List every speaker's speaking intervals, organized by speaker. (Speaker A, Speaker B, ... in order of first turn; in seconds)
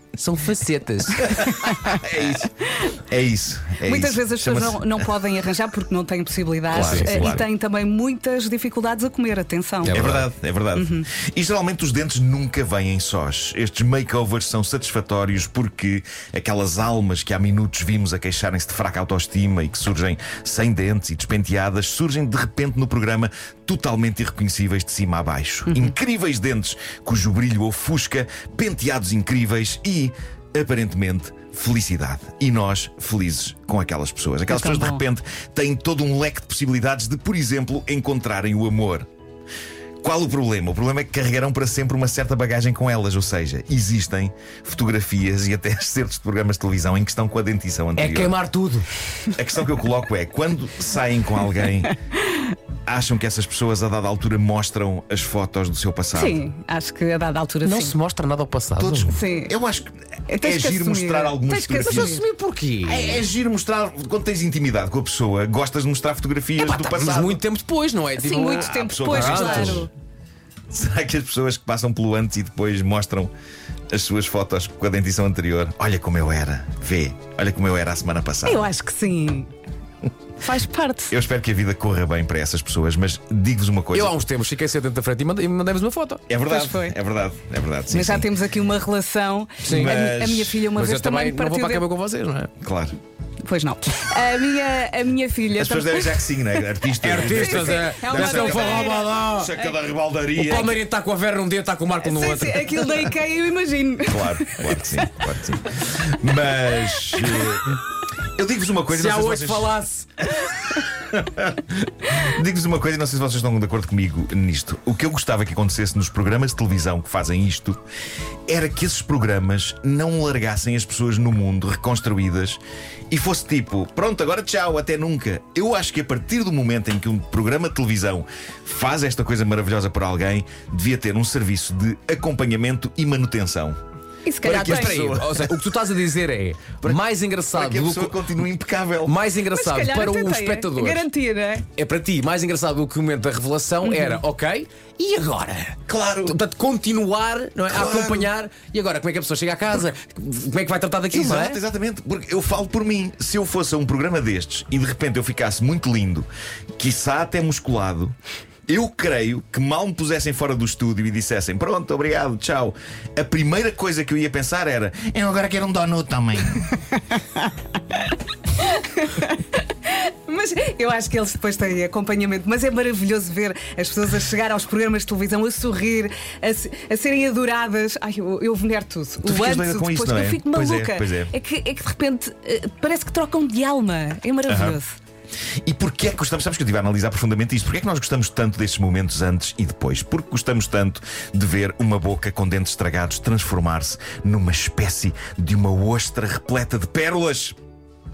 Speaker A: 0.2-1.5, 6.7-7.3, 9.8-10.3, 48.0-48.9, 57.6-59.1, 61.8-63.2, 66.6-69.9, 83.9-86.2, 89.6-89.9, 90.7-92.5, 97.0-99.5, 100.4-103.0, 108.9-110.1, 134.4-138.2, 139.1-141.1, 141.8-151.6
Speaker B: 1.2-5.1, 6.7-7.5, 9.9-39.1, 40.0-48.4, 49.4-52.0, 52.9-56.4, 58.8-62.2, 62.9-67.4, 68.5-69.9, 70.7-73.3, 73.9-78.7, 81.1-84.2, 86.3-88.3, 89.6-90.7, 92.6-93.0, 95.5-100.8, 104.1-107.8, 108.4-109.7, 110.3-117.8, 118.5-133.8, 134.4-135.5, 137.5-139.2, 145.9-146.4, 147.7-148.3, 151.1-158.2, 158.7-166.7, 179.2-181.3, 184.5-184.8, 185.6-197.6
Speaker C: 1.6-1.9, 3.8-10.0, 10.8-11.1, 25.7-25.9, 34.5-35.0, 56.1-58.0, 59.1-59.5, 60.3-62.2, 68.2-69.9, 78.5-79.5, 80.4-81.1, 86.5-87.0, 87.9-91.9, 93.4-96.5, 97.2-99.8, 102.0-104.7, 134.2-135.0, 139.5-141.7, 143.8-144.2, 168.6-185.0